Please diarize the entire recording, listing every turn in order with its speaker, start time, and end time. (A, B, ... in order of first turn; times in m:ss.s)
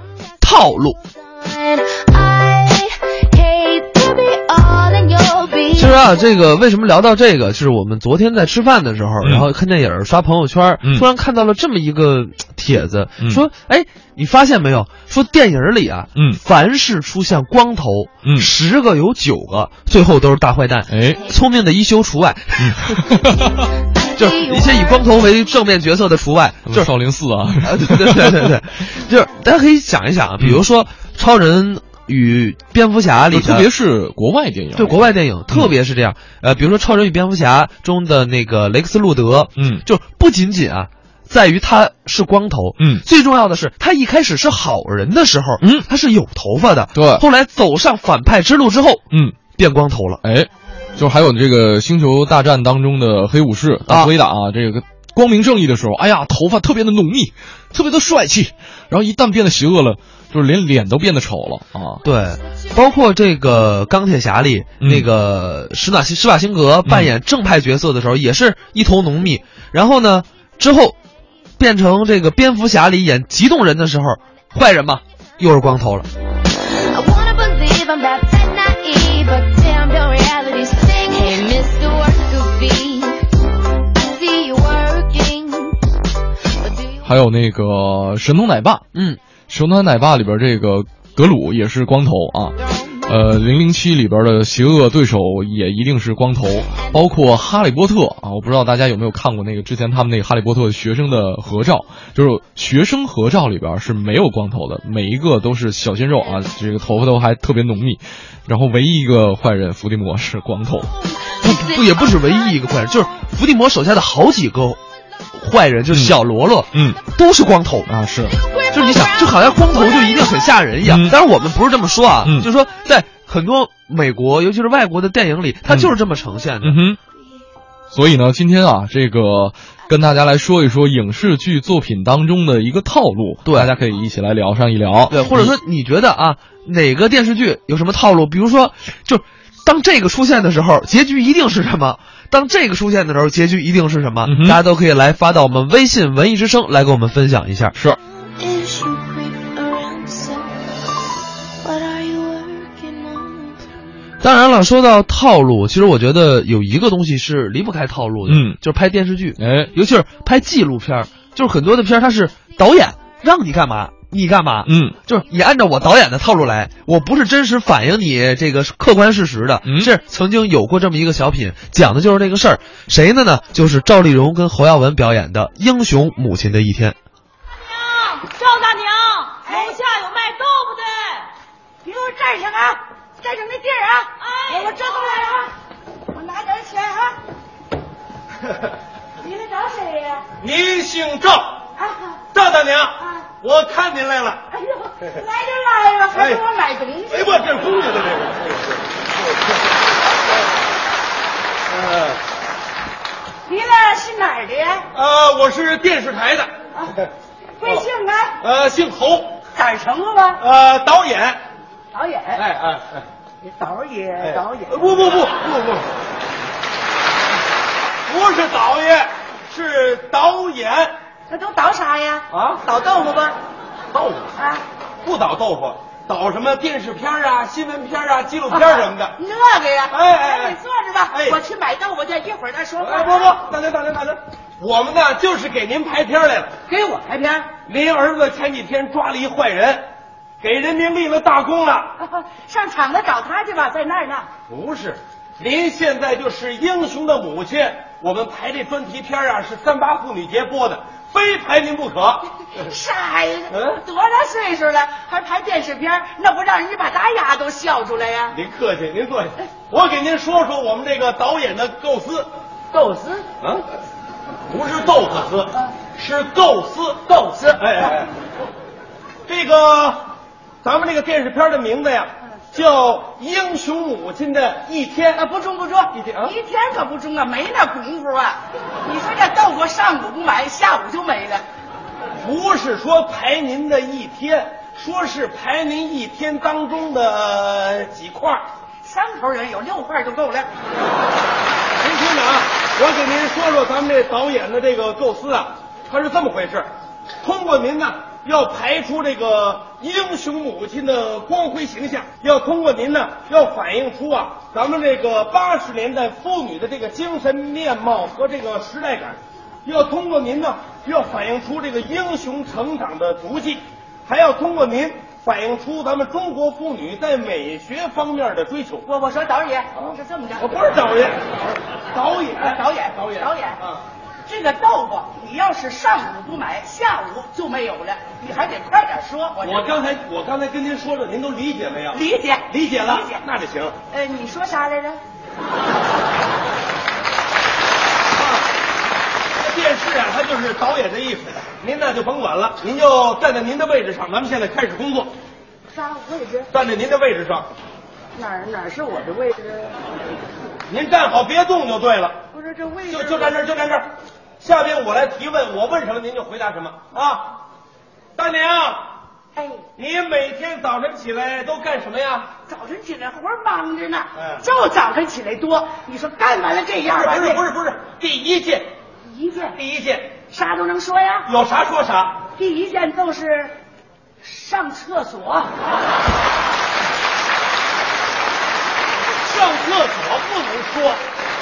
0:00.4-0:01.0 A
0:01.4-0:06.0 B
0:05.8-0:23.0 A
0:09.2-0:09.5 C
0:13.2-0:13.4 C
0:16.2-0:16.4 C
0:18.2-0:18.5 C
0:20.9-0:21.2 C
0:22.6-0:23.7 C
0:23.9-0:24.9 B
0:24.2-0:26.9 A
0:26.7-0:28.6 C
0:27.6-0:33.7 A
0:33.3-0:35.7 C
0:34.8-0:49.0 A
0:39.6-0:39.8 C
0:42.8-0:43.0 C
0:45.6-0:45.9 C
0:46.9-0:47.2 C
0:49.1-0:49.4 C
0:49.6-0:50.2 A
0:50.2-1:02.0 C
0:53.9-0:54.1 A
1:02.0-1:11.0 A
1:04.8-1:05.1 C
1:06.9-1:07.1 C
1:11.6-1:16.1 A
1:16.6-1:23.4 B
1:23.9-1:25.9 B
1:26.6-1:27.0 B
1:27.0-1:28.8 C
1:28.9-1:29.2 A
1:29.5-1:50.9 C
1:51.3-1:51.9 B
1:51.4-1:54.8 A
1:55.3-1:57.9 A
1:55.9-1:56.2 C
1:56.7-1:57.0 C
1:57.9-1:58.4 C
1:58.3-2:00.3 B
1:58.7-2:06.8 A
2:00.8-2:01.2 C
2:02.2-2:02.5 C
2:05.7-2:05.9 C
2:06.6-2:07.0 C
2:07.9-2:15.6 C
2:13.4-2:13.7 A
2:15.1-2:27.8 A
2:24.2-2:24.6 C
2:28.4-2:30.6 B
2:31.6-2:33.6 B
2:34.2-2:57.0 A
2:38.3-2:38.6 C
2:39.4-2:39.7 C
2:44.6-2:45.0 C
2:49.6-2:49.9 C
2:57.8-3:01.2 D
3:01.8-3:05.5 D
3:06.1-3:07.2 D
3:09.2-3:10.3 D
3:10.4-3:11.6 E
3:11.8-3:12.2 D
3:12.3-3:14.5 E
3:13.0-3:13.3 D
3:14.5-3:17.6 D
3:16.1-3:16.4 E
3:17.1-3:19.6 E
3:21.7-3:22.2 E
3:23.5-3:24.9 D
3:24.9-3:27.1 E
3:27.6-3:28.4 D
3:28.4-3:29.4 E
3:29.5-3:30.4 D
3:30.4-3:31.4 E
3:31.9-3:32.4 D
3:32.4-3:33.1 E
3:33.4-3:35.0 D
3:34.2-3:35.9 E
3:38.1-3:41.0 E
3:41.3-3:43.4 D
3:42.3-3:42.6 E
3:43.9-3:44.4 E
3:44.4-3:44.6 D
3:45.0-3:49.2 E
3:48.5-3:53.4 D
3:49.9-3:50.6 E
3:51.1-3:51.4 E
3:52.8-3:56.6 E
3:56.7-3:57.5 D
3:57.7-3:59.9 E
4:00.4-4:02.0 E
4:02.0-4:04.3 D
4:04.5-4:12.6 E
4:12.5-4:18.4 D
4:13.5-4:13.8 E
4:18.3-4:22.3 E
4:22.7-4:23.3 D
4:24.5-4:28.1 E
4:27.1-4:27.9 D
4:29.3-4:30.1 E
4:30.6-4:35.2 E
4:35.2-4:41.4 D
4:35.9-4:36.4 E
4:42.2-4:48.4 E
4:48.8-4:50.5 D
4:51.8-4:56.7 E
4:57.2-5:18.9 E
5:18.9-5:20.6 D
5:19.8-5:23.8 E
5:22.3-5:23.6 D
5:24.3-5:29.8 D
5:29.4-5:33.8 E
5:31.9-5:33.2 D
5:33.9-5:35.0 D
5:38.2-5:38.5 E
5:39.4-5:45.1 E
5:45.7-5:46.5 D
5:46.5-5:47.5 E
5:48.2-5:49.8 D
5:50.7-5:52.2 E
5:52.3-5:53.4 D
5:52.9-5:57.4 E
5:58.2-5:58.9 E
5:59.4-5:59.6 D
5:59.8-6:02.3 E
6:02.5-6:07.4 D
6:04.2-6:04.5 E
6:06.9-6:08.7 E
6:09.0-6:09.6 D
6:09.5-6:10.2 E
6:10.2-6:11.3 D
6:11.3-6:12.3 E
6:12.3-6:13.6 D
6:14.2-6:15.5 D
6:19.2-6:21.0 E